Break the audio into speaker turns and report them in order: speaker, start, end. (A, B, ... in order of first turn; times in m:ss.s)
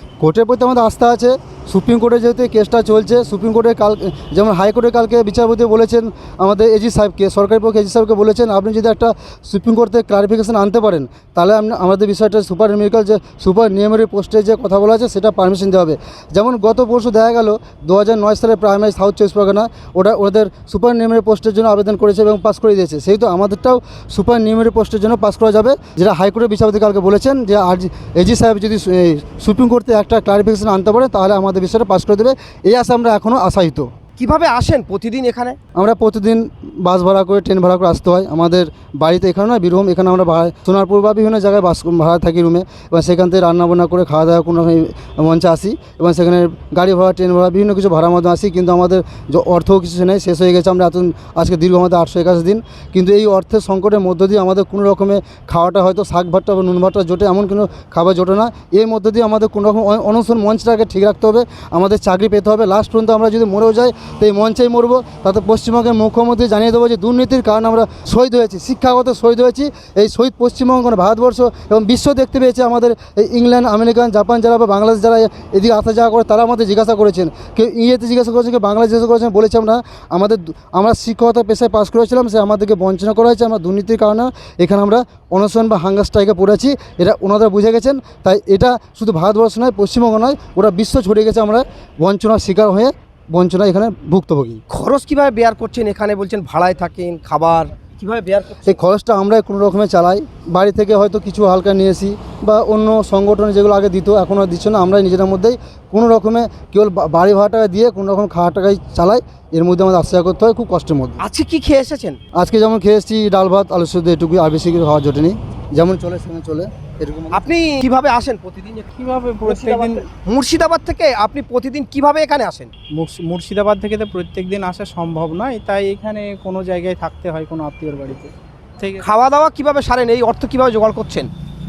0:00.2-0:33.9 A
0:34.2-0:35.6 B
0:35.8-1:34.6 A
1:34.7-1:38.8 B
1:38.7-1:51.2 A
1:51.2-1:52.2 B
1:52.4-1:57.4 A
1:57.3-1:58.9 B
1:59.0-2:00.1 C
1:59.4-2:02.7 B
2:02.9-2:09.1 C
2:09.0-2:11.3 B